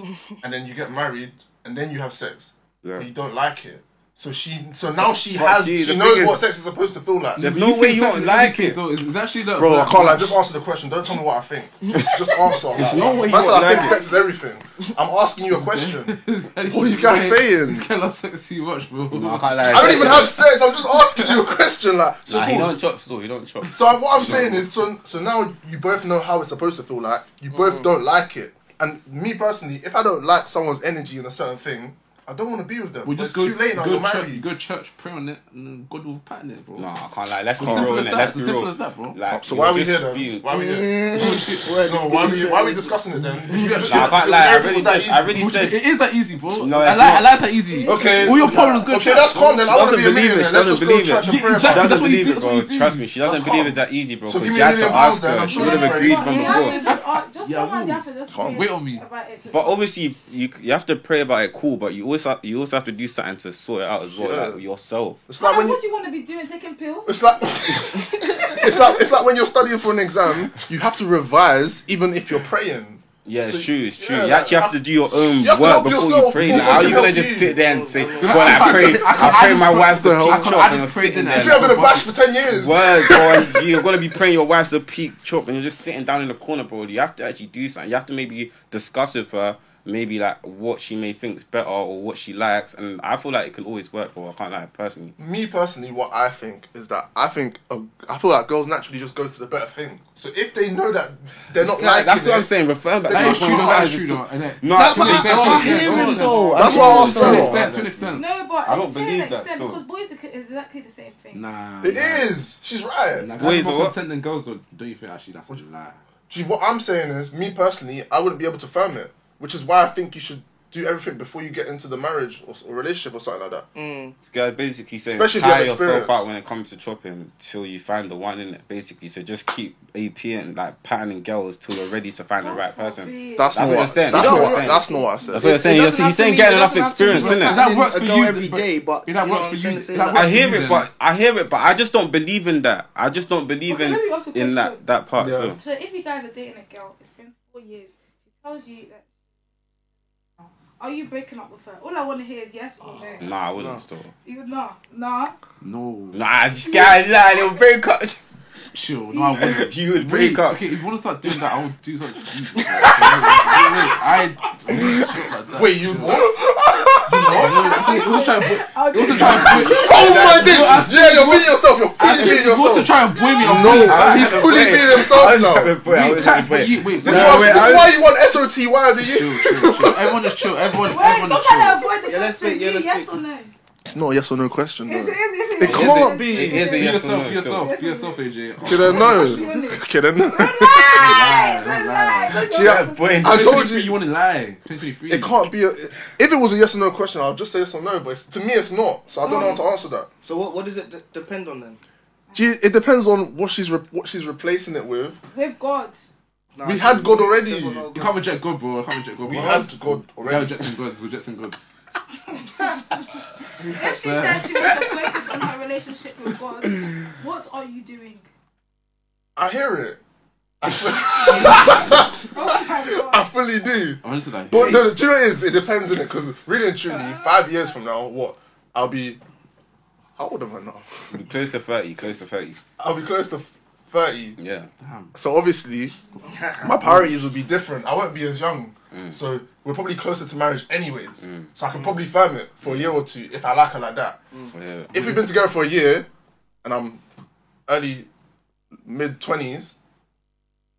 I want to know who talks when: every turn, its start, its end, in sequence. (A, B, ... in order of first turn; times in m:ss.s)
0:00.4-0:07.4 A
0:02.8-0:03.1 B
0:05.0-0:06.4 B
0:07.4-0:10.4 C
0:07.4-0:08.8 B
0:09.6-0:16.1 A
0:12.7-0:14.0 B
0:13.0-0:13.6 D
0:13.6-0:14.1 E
0:15.5-0:20.3 C
0:16.7-0:17.9 A
0:19.1-0:20.4 B
0:19.6-0:22.7 A
0:22.3-0:24.7 B
0:23.7-0:34.4 A
0:27.5-0:27.8 D
0:33.0-0:36.9 C
0:36.8-0:40.5 B
0:37.6-0:39.2 C
0:37.6-0:37.9 A
0:39.3-0:41.0 A
0:40.5-0:43.0 D
0:41.1-0:41.7 C
0:41.8-0:45.4 A
0:43.5-0:49.7 C
0:43.8-0:45.8 B
0:46.6-0:47.4 B
0:47.7-0:48.5 E
0:47.9-0:52.0 A
0:49.6-0:56.8 B
0:51.2-0:53.1 C
0:53.2-0:56.7 A
0:55.5-0:59.8 E
0:56.4-0:59.0 C
0:58.3-0:58.6 A
0:59.5-1:05.2 B
1:04.1-1:04.6 A
1:05.3-1:05.8 A
1:05.4-1:07.3 E
1:07.1-1:17.6 A
1:08.4-1:08.8 E
1:13.2-1:21.8 B
1:16.4-1:16.9 C
1:16.6-1:19.3 D
1:18.2-1:22.1 C
1:18.6-1:23.8 A
1:22.5-1:35.1 B
1:35.2-1:42.5 A
1:41.6-1:49.8 B
1:43.0-1:44.0 A
1:43.1-1:48.2 C
1:44.7-1:47.6 D
1:45.3-1:46.0 A
1:46.6-1:47.6 A
1:48.1-1:51.4 E
1:51.3-1:52.3 C
1:51.8-1:53.3 A
1:53.2-1:56.0 C
1:53.4-1:54.0 B
1:56.3-2:03.6 A
2:03.8-2:04.1 D
2:04.3-2:17.6 B
2:05.1-2:06.2 A
2:12.4-2:13.8 E
2:13.4-2:15.6 A
2:14.1-2:20.3 D
2:17.1-2:20.9 C
2:20.1-2:25.6 B
2:23.7-2:24.8 E
2:25.2-2:25.6 A
2:25.6-2:29.1 E
2:30.4-2:33.3 E
2:33.2-2:34.1 B
2:34.2-2:35.4 E
2:35.6-2:36.2 C
2:36.1-2:38.2 B
2:38.7-2:46.2 C
2:39.2-2:39.5 E
2:39.4-2:40.6 B
2:45.5-2:47.9 A
2:47.3-2:54.4 C
2:47.4-2:50.8 E
2:49.1-2:55.7 A
2:53.2-2:54.2 E
2:53.6-2:58.0 B
2:55.8-2:58.0 C
2:57.0-3:00.8 A
2:59.0-3:01.8 C
3:00.8-3:03.5 E
3:02.0-3:03.1 D
3:03.8-3:06.8 A
3:04.8-3:07.0 E
3:05.6-3:07.7 B
3:06.5-3:09.5 C
3:07.6-3:08.2 E
3:08.6-3:11.2 A
3:08.8-3:13.2 E
3:11.0-3:12.4 C
3:11.0-3:11.5 B
3:12.4-3:13.9 A
3:12.5-3:13.6 B
3:13.2-3:15.4 C
3:15.1-3:20.1 A
3:19.2-3:19.6 E
3:20.2-3:21.8 D
3:22.4-3:25.2 A
3:25.3-3:25.9 E
3:26.6-3:28.2 D
3:26.6-3:27.9 A
3:27.9-3:31.6 C
3:29.2-3:30.7 A
3:32.4-3:33.0 E
3:33.6-3:38.2 E
3:33.6-3:35.0 C
3:39.4-3:40.0 A
3:40.6-3:49.2 A
3:42.3-3:43.2 E
3:44.0-3:44.9 C
3:50.2-3:51.1 A
3:51.1-3:52.6 B
3:52.8-3:54.4 A
3:54.4-3:54.7 B
3:54.8-3:55.1 C
3:55.1-3:56.0 A
3:56.2-3:57.0 D
3:56.6-4:04.2 A
4:01.2-4:01.5 B
4:04.5-4:05.1 B
4:04.9-4:06.1 A
4:06.6-4:07.0 A
4:07.7-4:08.1 A
4:08.8-4:09.7 A